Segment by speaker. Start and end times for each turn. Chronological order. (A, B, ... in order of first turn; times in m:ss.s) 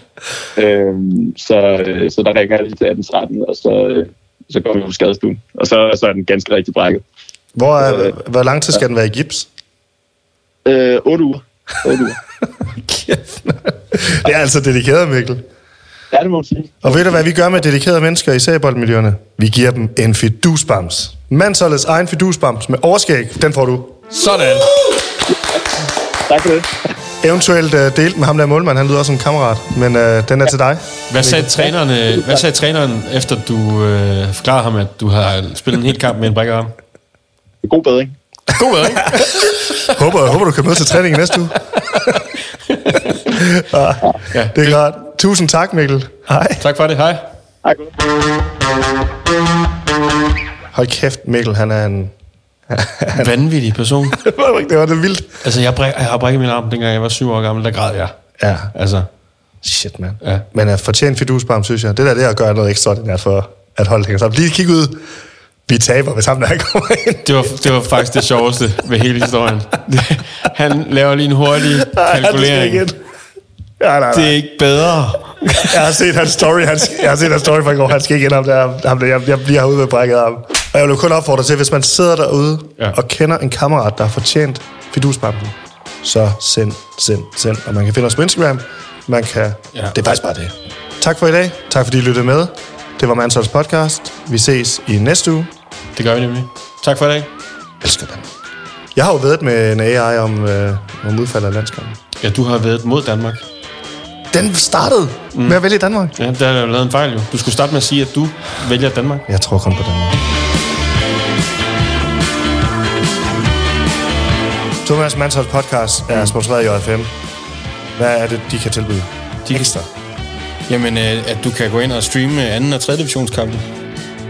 0:00.6-0:07.0 A
0:07.6-0:09.5 B
0:07.8-0:08.1 A
0:10.6-0:12.2 A
0:12.8-0:15.4 B
0:16.1-0:17.2 A
0:16.8-0:24.0 B
0:24.1-0:24.7 C
0:25.3-0:25.6 A
0:26.2-0:26.7 A
0:27.2-0:31.6 B
0:31.1-0:36.7 C
0:37.6-0:38.1 A
0:38.5-0:40.0 C
0:39.9-0:41.6 B
0:41.9-0:43.1 C
0:43.2-0:46.6 B
0:44.3-0:44.8 C
0:46.6-0:47.2 C
0:47.6-0:47.9 A
0:50.7-0:52.1 B
0:52.7-0:53.3 B
0:53.1-0:54.2 C
0:54.1-0:55.3 B
0:55.4-0:58.1 C
0:58.4-0:58.7 B
0:58.7-0:59.1 C
0:59.6-1:05.0 B
1:05.7-1:07.4 B
1:07.2-1:12.8 C
1:11.8-1:13.0 B
1:13.8-1:14.4 B
1:14.1-1:15.5 C
1:15.4-1:35.5 B
1:36.0-1:37.3 C
1:37.8-1:38.3 B
1:38.9-1:42.0 B
1:42.2-1:43.4 C
1:44.3-1:46.1 B
1:45.3-1:45.6 C
1:46.2-1:49.2 C
1:49.3-1:50.2 B
1:54.8-1:57.1 B
1:58.0-1:59.9 B
2:00.7-2:03.6 C